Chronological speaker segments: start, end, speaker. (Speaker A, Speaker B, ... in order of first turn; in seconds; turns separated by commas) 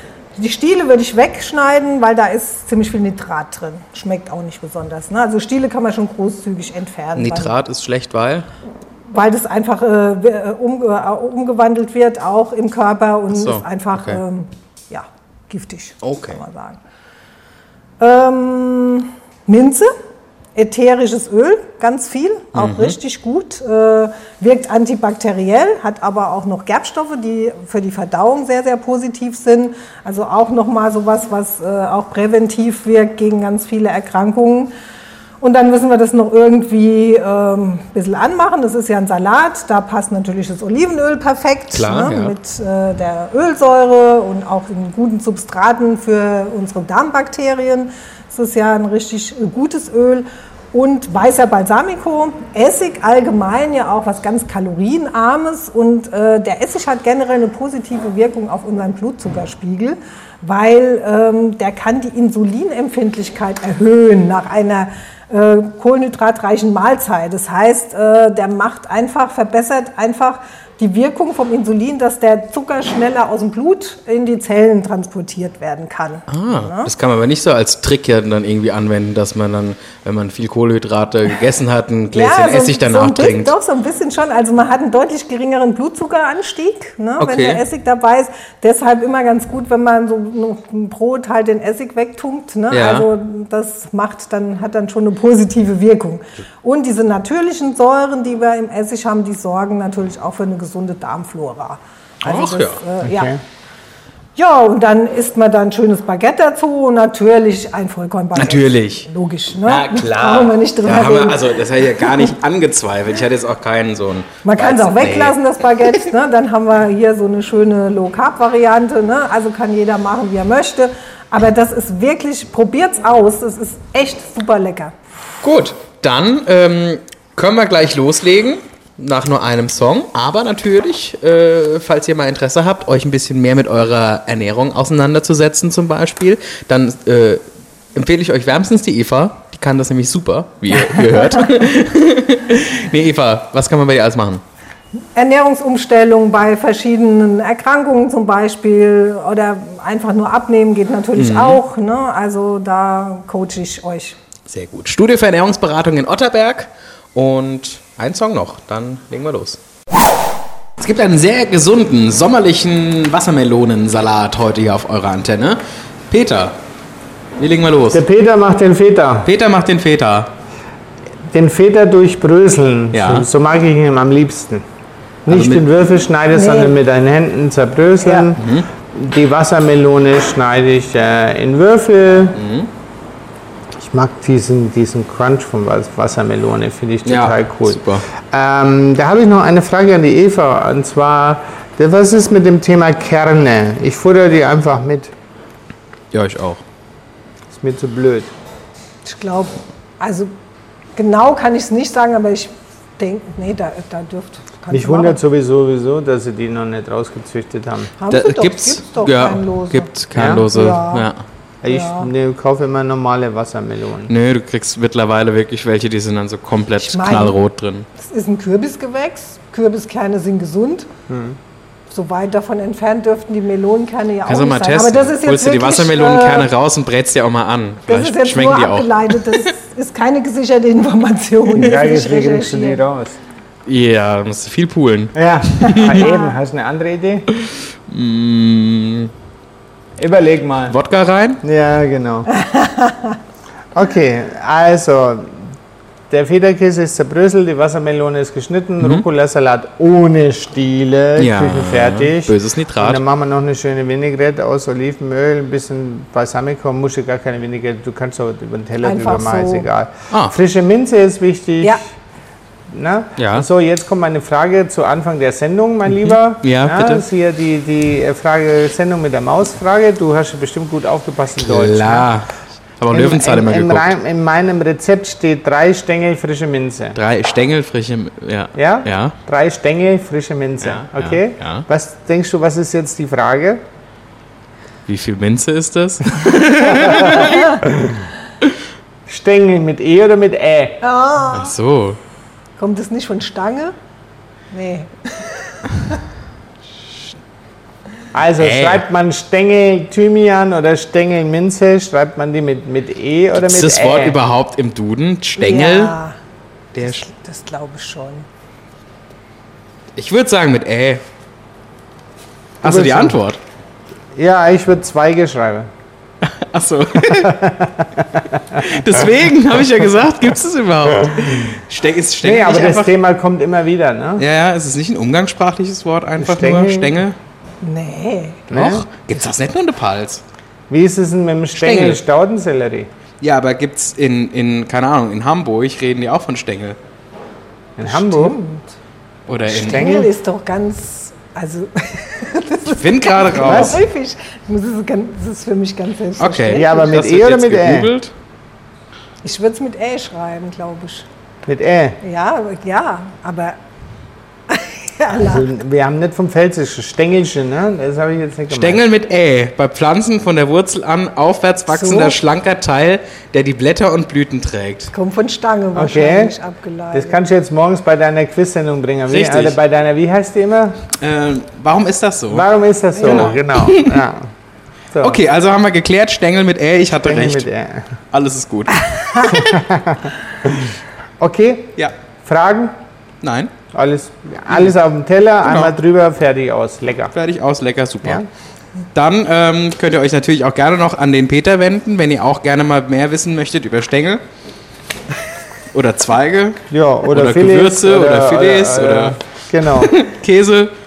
Speaker A: 0.3-7.5, Speaker B: 7.2-8.5, Speaker A: 9.1-16.8, Speaker B: 13.3-14.2, Speaker B: 16.0-16.4, Speaker A: 18.0-19.9, Speaker A: 20.5-34.7, Speaker B: 22.5-23.0, Speaker A: 35.4-76.9, Speaker B: 41.7-42.4, Speaker B: 76.3-83.5, Speaker A: 82.1-103.3, Speaker B: 87.2-87.6, Speaker B: 92.7-93.1, Speaker B: 102.2-102.8, Speaker C: 103.0-103.4, Speaker A: 104.3-111.6, Speaker B: 108.3-109.1, Speaker B: 109.6-115.4, Speaker A: 114.4-124.9, Speaker B: 125.4-137.4, Speaker B: 137.9-144.4, Speaker A: 145.1-154.2, Speaker B: 151.2-151.6, Speaker B: 154.5-159.6, Speaker B: 160.8-166.6, Speaker B: 167.4-168.0, Speaker C: 167.9-169.3, Speaker B: 169.2-170.3, Speaker C: 171.3-174.6, Speaker B: 172.9-173.2, Speaker C: 175.2-178.4, Speaker B: 175.3-175.6, Speaker A: 176.3-176.8, Speaker B: 178.3-178.7, Speaker C: 178.9-182.4, Speaker B: 182.3-182.7, Speaker C: 183.8-195.1, Speaker B: 187.0-188.1, Speaker B: 196.1-196.6, Speaker C: 197.5-198.3, Speaker A: 199.0-200.3, Speaker A: 200.9-205.2, Speaker C: 204.7-207.9, Speaker A: 208.0-211.1, Speaker B: 208.1-211.2, Speaker C: 210.1-210.5, Speaker C: 211.6-214.1, Speaker A: 211.7-212.1, Speaker B: 214.1-217.9, Speaker A: 216.8-217.4, Speaker A: 217.9-220.9, Speaker C: 221.1-221.3, Speaker A: 221.9-226.5, Speaker B: 224.2-229.5, Speaker A: 227.9-232.8, Speaker C: 231.5-233.2, Speaker B: 233.7-236.1, Speaker C: 235.1-237.2, Speaker A: 235.9-236.4, Speaker B: 237.4-239.1, Speaker C: 240.0-240.8, Speaker B: 240.7-241.4, Speaker C: 241.4-242.3, Speaker A: 242.4-243.2, Speaker C: 243.8-245.4, Speaker C: 246.1-261.8, Speaker B: 251.2-253.0, Speaker A: 258.8-259.7, Speaker C: 262.7-272.1, Speaker B: 263.2-263.5, Speaker B: 266.1-267.0, Speaker B: 271.4-273.9, Speaker C: 272.9-277.0, Speaker B: 276.9-279.1, Speaker C: 278.6-283.6, Speaker B: 280.6-281.6, Speaker B: 284.9-287.6, Speaker A: 287.1-287.5, Speaker C: 287.6-287.9, Speaker C: 289.1-290.8, Speaker A: 290.8-291.5, Speaker B: 291.3-292.0, Speaker A: 292.6-293.8, Speaker A: 294.5-296.0, Speaker C: 298.1-304.2, Speaker B: 298.4-298.8, Speaker B: 303.4-305.9, Speaker A: 305.4-306.2, Speaker B: 306.7-307.1, Speaker A: 306.8-308.2, Speaker B: 309.9-311.0, Speaker C: 312.6-313.2, Speaker B: 312.6-313.4, Speaker C: 314.1-315.7, Speaker B: 316.2-317.4, Speaker C: 317.0-318.4, Speaker B: 318.5-322.9, Speaker C: 322.2-324.2, Speaker B: 324.2-327.1, Speaker C: 326.2-327.0, Speaker A: 327.6-328.5, Speaker C: 328.5-328.9, Speaker B: 328.5-330.2, Speaker C: 330.7-332.9, Speaker B: 331.6-332.0, Speaker B: 333.2-336.8, Speaker C: 337.8-338.4, Speaker A: 337.8-338.7, Speaker B: 339.3-339.9, Speaker C: 339.5-340.1, Speaker A: 339.5-347.0, Speaker B: 342.7-343.8, Speaker C: 343.4-343.8, Speaker B: 346.2-348.1, Speaker C: 346.5-347.9, Speaker A: 349.2-351.1, Speaker C: 351.4-352.0, Speaker A: 352.0-353.6, Speaker A: 354.5-355.5, Speaker C: 355.1-358.8, Speaker B: 358.5-364.9, Speaker A: 361.7-362.2, Speaker A: 364.9-367.2, Speaker C: 365.8-366.3, Speaker C: 366.9-370.8, Speaker B: 369.1-369.6, Speaker B: 371.0-372.4, Speaker C: 372.3-374.3, Speaker A: 372.9-373.4, Speaker B: 373.0-374.0, Speaker C: 374.9-375.2, Speaker B: 375.0-377.5, Speaker C: 377.0-378.0, Speaker B: 378.1-379.6, Speaker C: 379.2-382.8, Speaker B: 383.2-383.5, Speaker C: 383.7-387.1, Speaker B: 385.4-385.7, Speaker B: 387.1-388.3, Speaker B: 388.9-394.2, Speaker B: 395.7-399.2, Speaker C: 396.7-399.9, Speaker B: 399.7-400.7